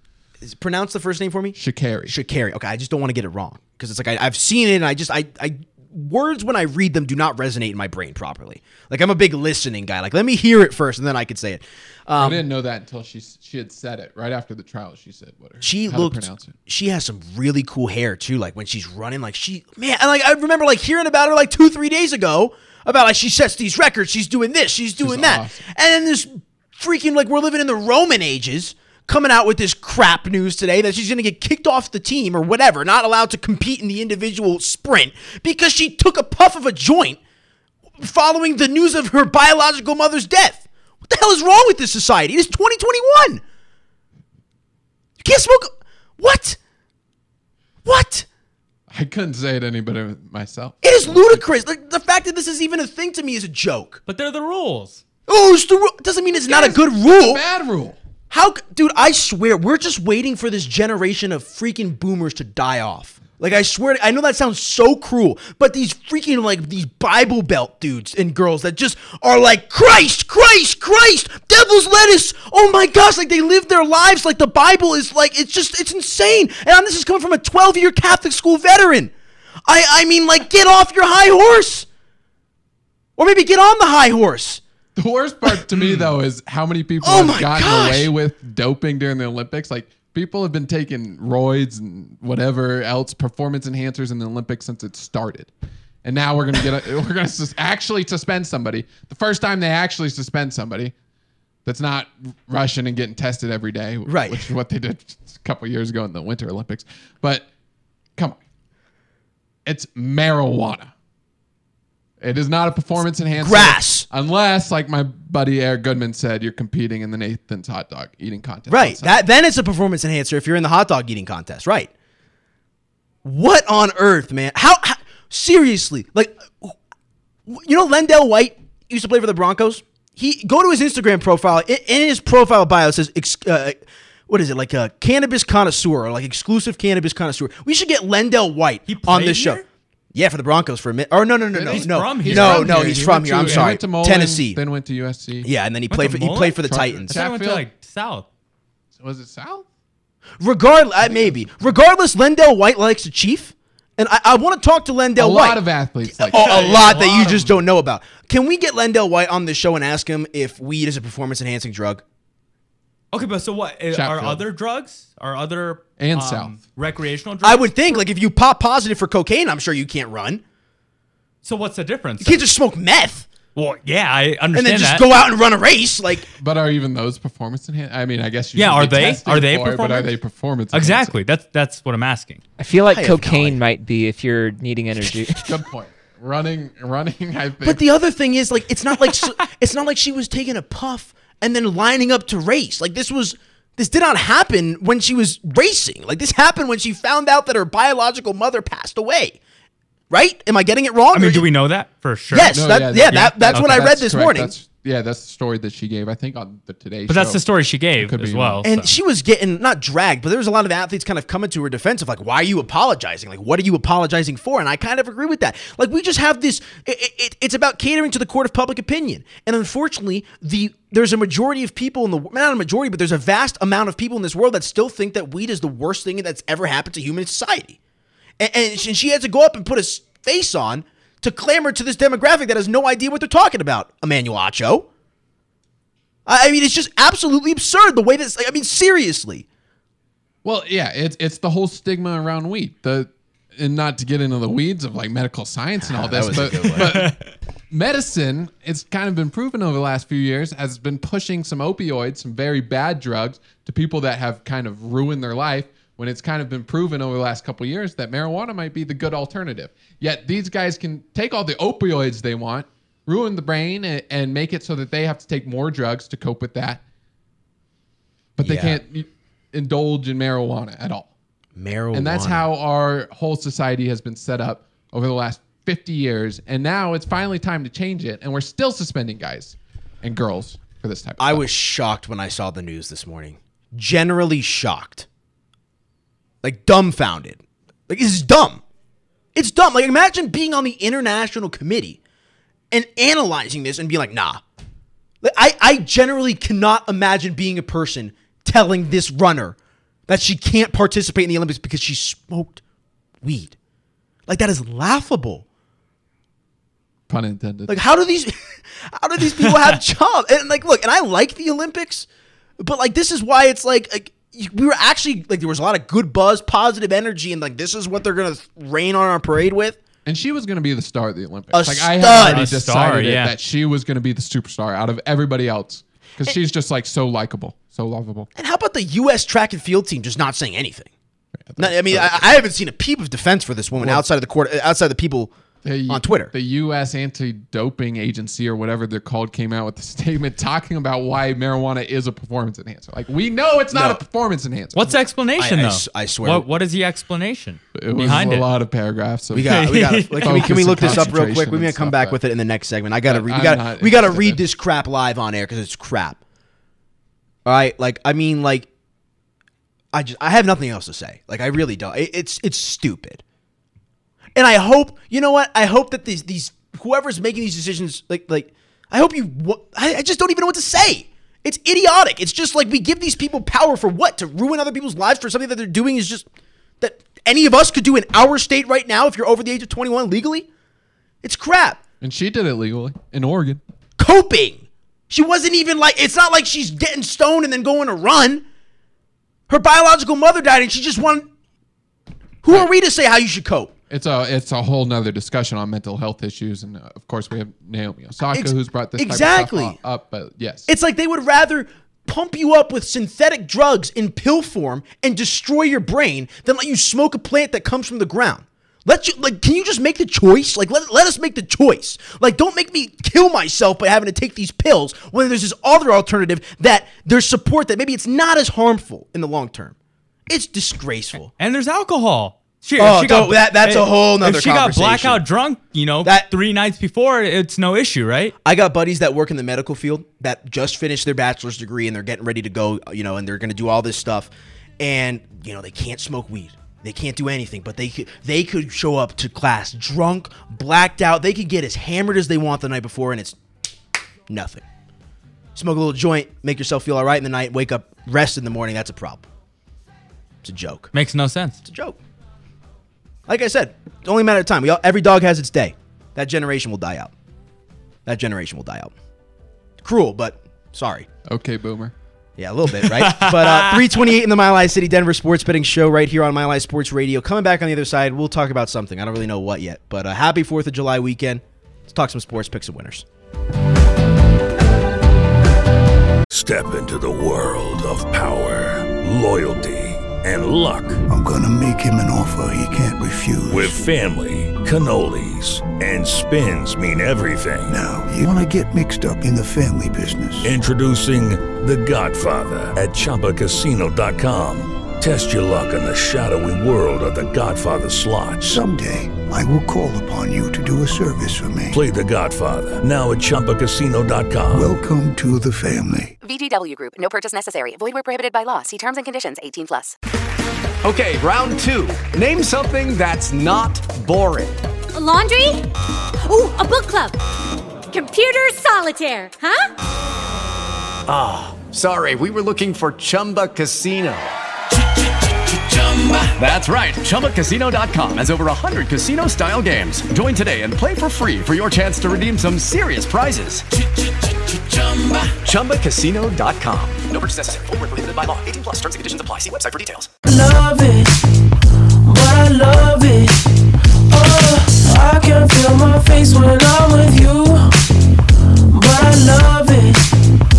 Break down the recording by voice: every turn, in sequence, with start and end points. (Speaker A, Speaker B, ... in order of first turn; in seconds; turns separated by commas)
Speaker A: 0.4-12.5, Speaker B: 1.6-2.1, Speaker B: 12.2-16.5, Speaker A: 15.6-37.2, Speaker B: 25.0-25.6, Speaker A: 38.0-43.4, Speaker A: 45.2-46.6, Speaker A: 47.9-48.3, Speaker B: 48.9-51.4, Speaker A: 50.8-54.0, Speaker C: 54.1-55.0, Speaker A: 55.3-57.4, Speaker B: 56.5-58.0, Speaker A: 58.3-79.1, Speaker A: 79.7-81.9, Speaker A: 83.2-84.6, Speaker B: 85.0-95.5, Speaker A: 85.5-86.2, Speaker A: 87.0-88.1, Speaker B: 96.0-101.0, Speaker B: 101.7-107.5, Speaker A: 104.0-104.5, Speaker B: 109.7-110.9, Speaker B: 112.2-119.2, Speaker A: 113.4-114.1, Speaker A: 118.7-121.9, Speaker A: 123.2-126.8, Speaker A: 127.5-133.8, Speaker A: 134.3-139.6, Speaker C: 138.9-139.7, Speaker A: 140.1-144.6, Speaker B: 141.6-145.5, Speaker C: 141.7-143.8, Speaker A: 145.4-147.2, Speaker C: 145.9-148.3, Speaker B: 146.7-147.7, Speaker B: 149.0-149.7, Speaker A: 150.4-162.0, Speaker B: 151.0-151.4, Speaker B: 155.2-156.8, Speaker C: 156.3-157.6, Speaker C: 163.1-168.0, Speaker B: 163.9-164.4, Speaker B: 166.0-166.6, Speaker A: 167.4-170.4, Speaker C: 171.4-172.4, Speaker A: 172.2-173.3, Speaker C: 173.6-175.1, Speaker A: 174.5-176.3, Speaker B: 176.4-181.1, Speaker C: 178.6-180.1, Speaker C: 180.7-182.4, Speaker D: 182.6-185.4, Speaker A: 182.9-183.6, Speaker B: 185.4-187.8, Speaker A: 187.6-199.4, Speaker A: 200.1-201.5, Speaker C: 201.1-203.9, Speaker A: 202.3-204.5, Speaker B: 202.5-207.4, Speaker C: 207.1-208.7, Speaker B: 208.0-208.9, Speaker A: 208.6-227.8, Speaker A: 228.4-234.9, Speaker A: 236.3-239.4, Speaker B: 240.4-247.2, Speaker A: 245.8-247.1, Speaker C: 246.8-247.1, Speaker B: 247.7-266.8, Speaker B: 268.4-271.1, Speaker A: 268.4-268.8, Speaker A: 271.6-272.4, Speaker B: 271.9-281.4, Speaker A: 281.2-285.1, Speaker A: 286.4-288.6, Speaker A: 289.4-292.0, Speaker A: 292.7-294.4, Speaker A: 295.2-299.6, Speaker A: 300.1-302.6, Speaker A: 303.2-303.6, Speaker A: 304.3-305.4, Speaker B: 307.1-307.8, Speaker A: 307.7-308.3, Speaker A: 308.9-312.1, Speaker C: 309.4-309.7, Speaker A: 312.6-319.8, Speaker B: 320.1-328.3, Speaker A: 321.5-322.5, Speaker C: 322.1-323.4, Speaker A: 328.4-330.9, Speaker B: 331.4-332.3, Speaker A: 331.6-335.3, Speaker B: 333.8-334.0, Speaker B: 335.6-345.0, Speaker A: 335.9-336.3, Speaker A: 343.7-344.0, Speaker C: 344.8-348.5, Speaker A: 345.4-346.5, Speaker B: 347.8-349.7, Speaker A: 349.3-356.2, Speaker C: 349.4-351.1, Speaker B: 350.2-352.2, Speaker B: 353.1-354.4, Speaker A: 357.4-358.7, Speaker A: 359.9-363.2, Speaker A: 364.4-376.3, Speaker A: 376.8-380.5, Speaker A: 381.2-381.8, Speaker B: 382.0-383.6, Speaker A: 384.0-388.4, Speaker A: 389.5-391.3, Speaker A: 392.4-393.7, Speaker B: 393.9-400.7, Speaker A: 398.3-399.8, Speaker A: 400.7-419.8, Speaker A: 420.3-421.3, Speaker C: 421.3-428.4, Speaker A: 422.8-425.2, Speaker A: 426.0-426.3, Speaker A: 428.4-443.4, Speaker A: 444.3-444.6, Speaker A: 445.6-449.3, Speaker A: 450.4-450.9, Speaker C: 450.9-451.6, Speaker A: 451.7-452.0, Speaker A: 453.3-457.1, Speaker A: 458.1-458.9, Speaker A: 459.8-461.1, Speaker B: 461.3-461.9, Speaker A: 462.4-473.1, Speaker C: 462.8-464.0, Speaker E: 476.3-481.0, Speaker F: 481.1-483.8, Speaker E: 483.5-487.8, Speaker F: 487.7-490.5, Speaker E: 490.4-498.6, Speaker F: 498.4-501.8, Speaker E: 501.7-504.7, Speaker F: 504.5-506.1, Speaker G: 506.2-509.9, Speaker H: 510.8-514.6, Speaker I: 514.9-515.7, Speaker I: 516.2-517.2, Speaker I: 517.9-519.7, Speaker H: 521.1-524.3, Speaker H: 525.0-540.1, Speaker J: 540.2-541.2, Speaker J: 542.0-543.5, Speaker J: 544.1-547.7, Speaker J: 548.7-550.2